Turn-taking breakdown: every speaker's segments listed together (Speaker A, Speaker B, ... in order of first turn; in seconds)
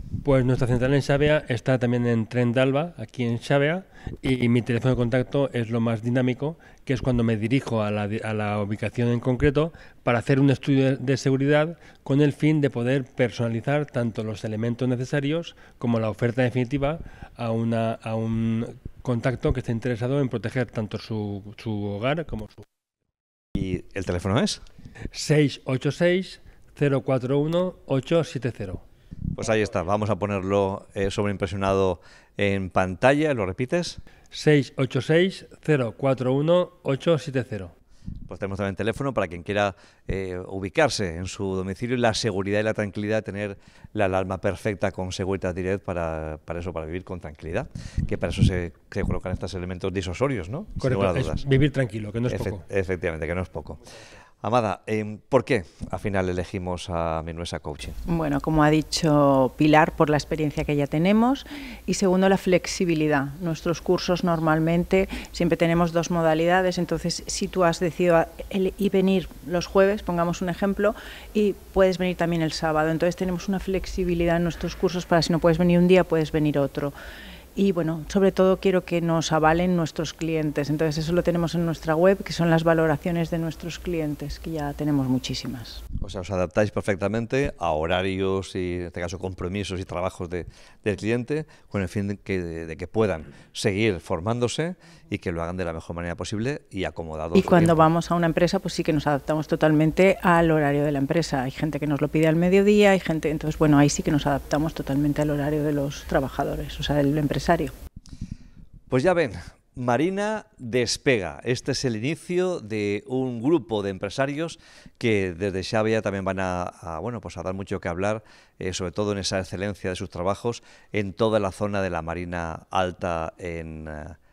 Speaker A: 0.2-22.6, 25.1-28.8, 34.3-37.7, 50.8-52.6
Speaker B: 23.5-24.6, 29.4-34.0, 38.3-51.4, 52.3-53.8, 54.4-58.0, 86.0-97.8, 108.9-124.2
Speaker C: 58.1-76.9, 77.5-85.8, 97.3-107.7